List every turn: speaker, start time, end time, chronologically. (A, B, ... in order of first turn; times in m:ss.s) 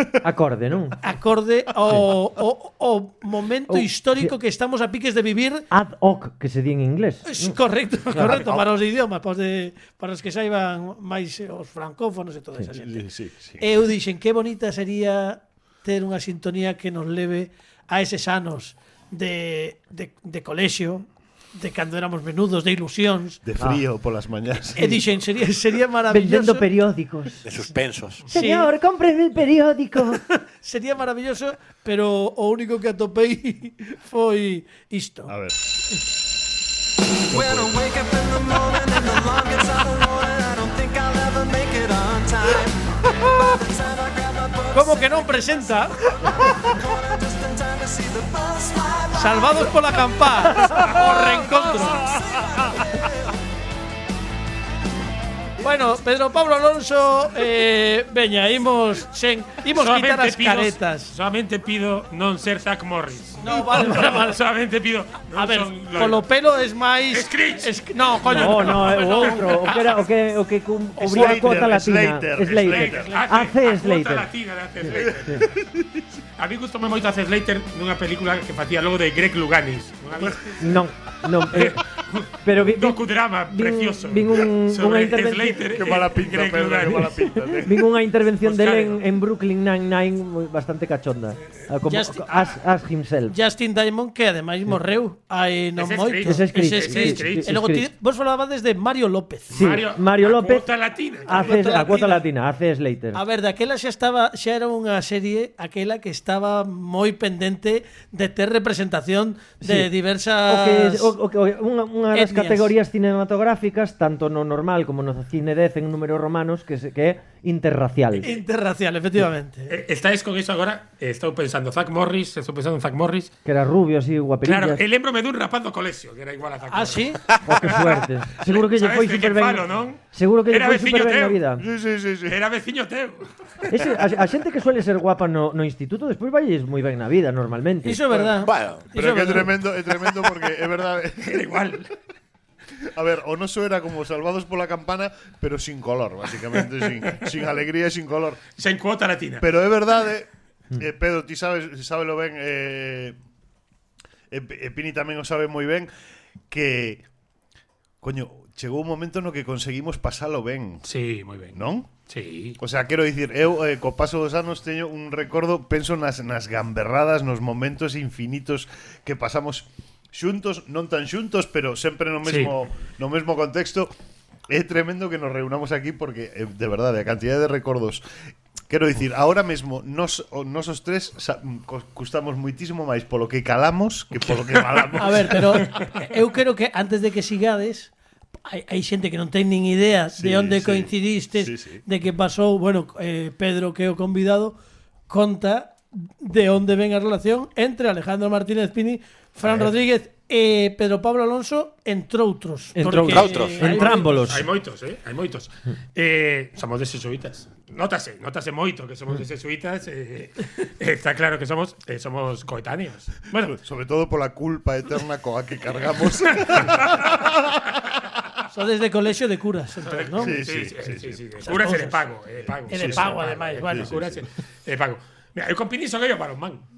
0:00.2-0:01.0 A
0:01.0-0:05.6 B
0:03.7-0:04.3 A
0:05.7-0:07.6 A
0:07.2-0:13.0 B
0:08.1-0:08.5 A
0:08.2-0:08.7 C
0:12.8-0:13.6 C
0:13.6-0:23.4 B
0:23.4-0:25.0 C
0:24.8-0:26.7 B
0:26.1-0:27.5 A
0:27.4-0:28.2 D
0:28.3-0:30.2 A
0:28.3-0:28.7 B
0:30.2-0:35.3 B
0:35.3-0:35.6 C
0:37.3-0:53.3 E
0:37.3-0:37.8 C
0:44.7-0:46.0 B
0:49.1-0:52.1 B
0:55.6-1:01.1 B
0:59.7-1:06.2 F
1:03.4-1:04.4 B
1:05.3-1:09.6 B
1:07.1-1:09.8 F
1:08.2-1:14.3 A
1:11.0-1:13.1 C
1:12.6-1:15.5 F
1:14.8-1:15.4 A
1:15.0-1:15.8 C
1:16.4-1:20.8 F
1:20.6-1:21.8 A
1:21.5-1:27.3 F
1:22.4-1:25.6 A
1:25.7-1:27.8 C
1:27.0-1:33.3 A
1:28.4-1:29.0 F
1:31.9-1:32.6 B
1:33.3-1:39.5 B
1:35.8-1:37.5 F
1:36.2-1:37.9 A
1:39.5-1:41.7 F
1:39.5-1:40.7 A
1:41.2-1:43.2 A
1:41.4-1:42.2 B
1:43.1-1:51.1 B
1:49.6-1:49.9 A
1:50.4-1:58.3 A
1:52.1-1:52.7 B
1:58.2-1:59.7 B
1:59.7-2:03.3 F
2:03.4-2:04.8 A
2:04.4-2:11.4 F
2:06.7-2:07.2 B
2:07.4-2:11.6 A
2:11.6-2:12.4 C
2:12.2-2:13.3 F
2:13.7-2:18.0 A
2:17.8-2:19.5 B
2:18.4-2:18.9 D
2:18.9-2:21.5 C
2:21.2-2:21.9 F
2:22.9-2:28.4 C
2:28.6-2:29.5 F
2:29.4-2:33.2 C
2:34.3-2:35.9 C
2:36.5-2:37.0 C
2:38.0-2:40.8 C
2:40.8-2:42.6 F
2:41.5-2:41.9 C
2:42.6-2:53.9 C
2:52.2-2:52.5 F
2:54.5-2:58.0 C
2:58.7-3:05.8 C
3:05.0-3:07.9 B
3:08.4-3:14.6 B
3:10.2-3:11.8 C
3:15.1-3:24.3 B
3:22.7-3:24.5 A
3:23.0-3:23.8 D
3:23.8-3:33.5 F
3:33.4-3:38.0 C
3:36.3-3:37.0 F
3:38.5-3:40.4 B
3:39.8-3:46.6 F
3:40.2-3:41.6 C
3:41.5-3:42.0 B
3:42.5-3:44.2 C
3:42.7-3:43.9 B